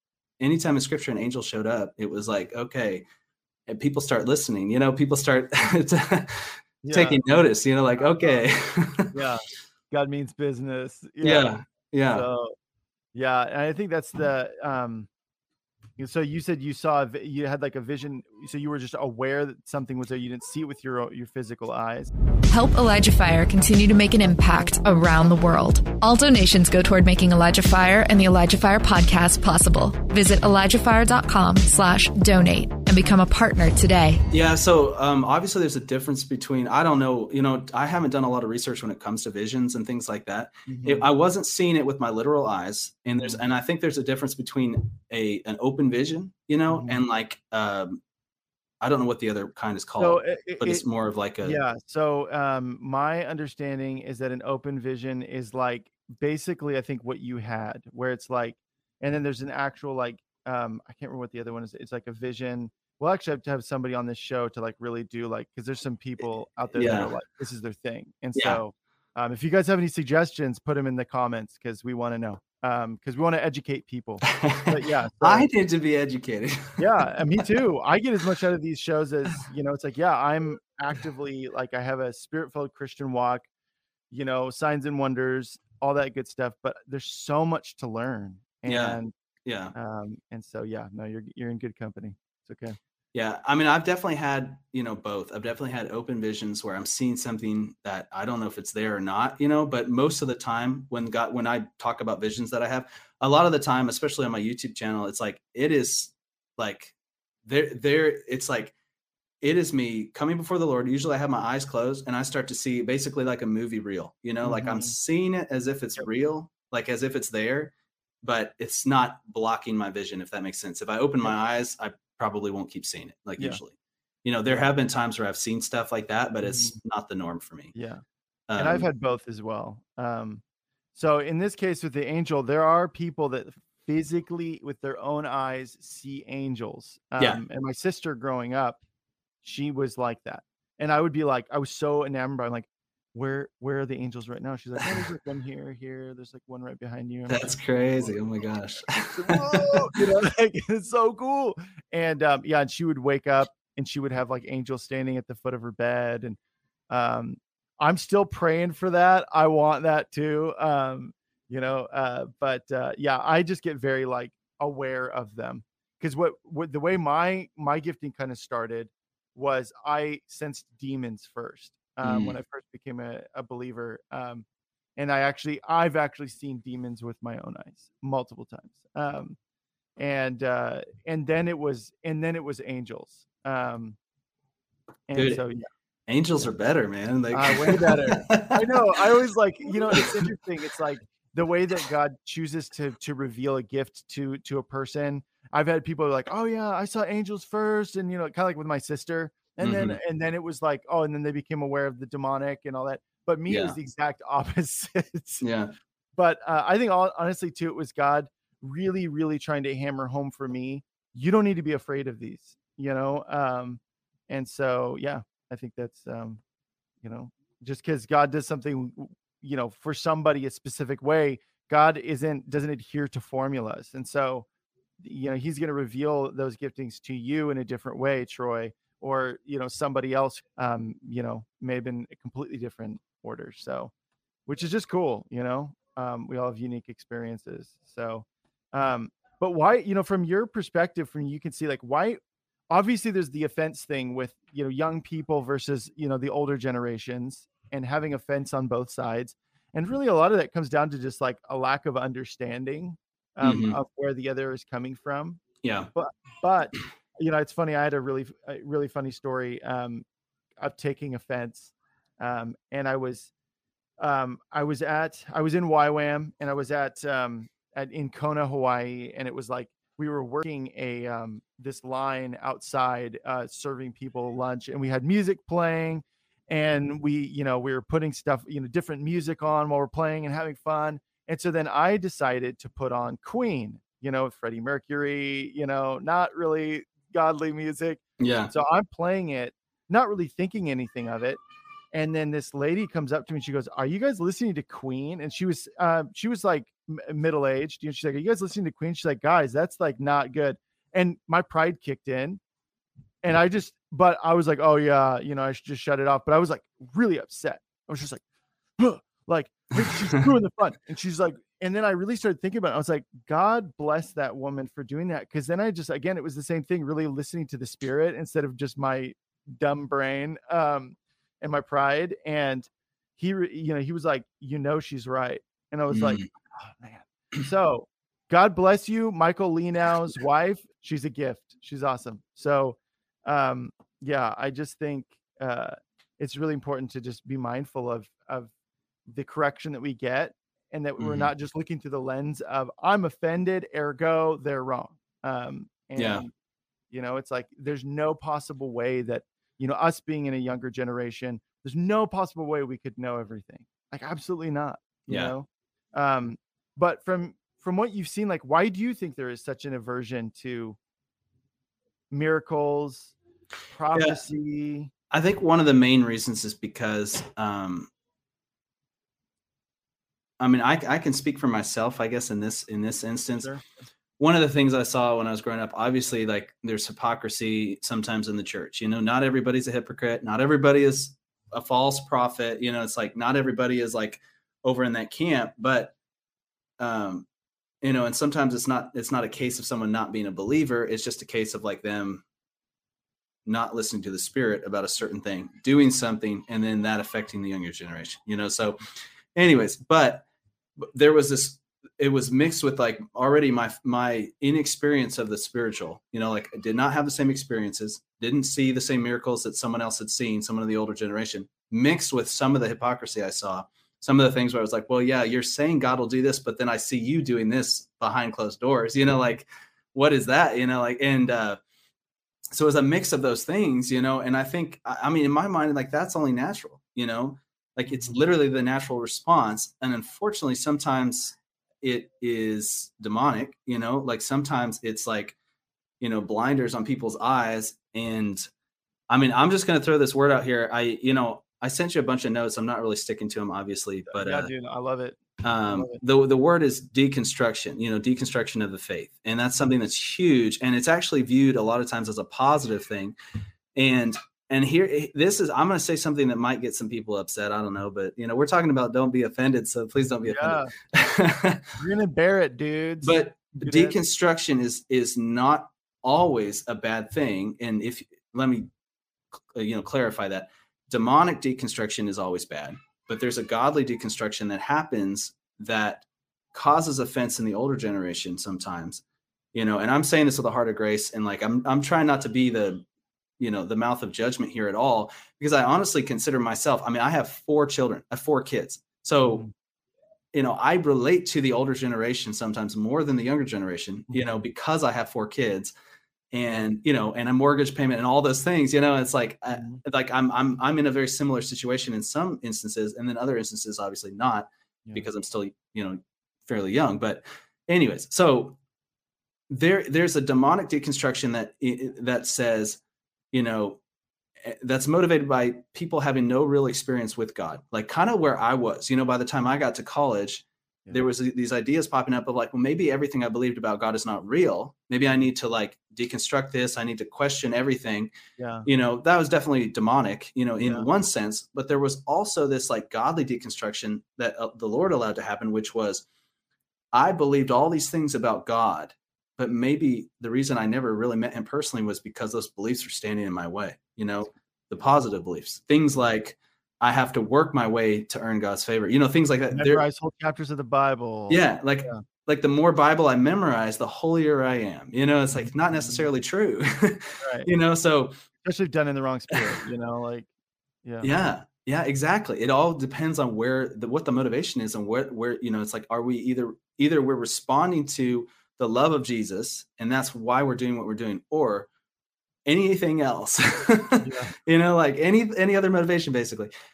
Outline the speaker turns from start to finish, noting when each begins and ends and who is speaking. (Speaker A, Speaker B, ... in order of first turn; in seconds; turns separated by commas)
Speaker A: 0.4-3.0, Speaker A: 3.7-9.1, Speaker B: 6.8-7.3, Speaker B: 8.0-8.4, Speaker B: 9.1-11.5, Speaker A: 11.2-12.3, Speaker B: 12.1-12.6, Speaker B: 13.1-15.1, Speaker B: 16.0-22.1, Speaker C: 22.5-34.2, Speaker A: 34.3-48.0, Speaker B: 40.7-41.1, Speaker B: 46.7-47.0, Speaker A: 48.8-51.6, Speaker B: 50.0-50.9, Speaker B: 51.4-75.5, Speaker A: 66.8-67.1, Speaker A: 68.3-68.6, Speaker A: 74.3-76.8, Speaker B: 76.8-83.5, Speaker B: 84.1-89.1, Speaker A: 88.7-89.7, Speaker B: 89.8-92.8, Speaker A: 93.1-108.7, Speaker A: 109.4-127.7, Speaker B: 114.4-114.9, Speaker B: 126.5-126.8, Speaker B: 127.7-128.0, Speaker A: 128.5-128.9, Speaker B: 128.6-130.4, Speaker B: 130.9-138.8, Speaker B: 139.4-147.5, Speaker A: 147.3-149.8, Speaker B: 149.1-156.4, Speaker B: 156.9-174.4, Speaker A: 172.0-172.4, Speaker B: 175.0-179.4, Speaker B: 180.0-184.0, Speaker B: 185.1-185.7, Speaker A: 185.2-185.4, Speaker A: 186.1-188.7, Speaker B: 187.3-205.5, Speaker A: 199.6-200.0, Speaker A: 203.5-203.8, Speaker A: 205.4-205.7, Speaker B: 206.2-216.4, Speaker B: 217.0-224.5, Speaker B: 225.0-233.9, Speaker B: 234.5-255.4, Speaker A: 253.4-253.8, Speaker A: 255.6-255.9, Speaker B: 255.9-260.1, Speaker B: 260.6-263.3, Speaker B: 264.0-291.4, Speaker A: 288.2-288.5, Speaker B: 291.9-302.4, Speaker B: 303.2-308.2, Speaker B: 308.8-338.5, Speaker A: 325.9-326.3, Speaker B: 339.1-346.3, Speaker A: 341.0-341.3, Speaker A: 346.0-346.2, Speaker B: 346.9-360.8, Speaker A: 355.1-355.3, Speaker B: 362.1-363.1, Speaker B: 363.7-364.9, Speaker A: 365.1-367.9, Speaker A: 370.4-373.5, Speaker B: 373.4-373.9, Speaker A: 374.2-385.9, Speaker A: 386.8-387.3, Speaker A: 387.8-392.2, Speaker A: 393.5-398.8, Speaker A: 399.4-400.2, Speaker A: 400.8-421.6, Speaker A: 422.5-435.4, Speaker B: 427.9-428.2, Speaker A: 436.0-438.4, Speaker A: 439.1-444.5, Speaker B: 444.1-446.0, Speaker A: 445.4-453.1, Speaker A: 453.8-461.6, Speaker B: 460.3-460.7, Speaker B: 461.8-464.0, Speaker A: 463.0-468.7, Speaker A: 469.5-479.0, Speaker A: 479.5-482.9, Speaker A: 483.4-489.4, Speaker B: 489.3-489.5, Speaker A: 490.3-495.7, Speaker A: 496.3-508.6, Speaker B: 499.6-499.8, Speaker A: 509.5-512.8, Speaker A: 513.3-513.8, Speaker A: 514.4-528.1, Speaker B: 528.4-528.7, Speaker A: 528.7-536.0, Speaker A: 536.9-549.8, Speaker B: 549.5-552.0, Speaker A: 551.3-558.1, Speaker B: 555.3-556.1, Speaker B: 557.2-557.5, Speaker B: 558.4-560.3, Speaker A: 561.0-571.7, Speaker A: 572.5-576.5, Speaker B: 574.0-574.3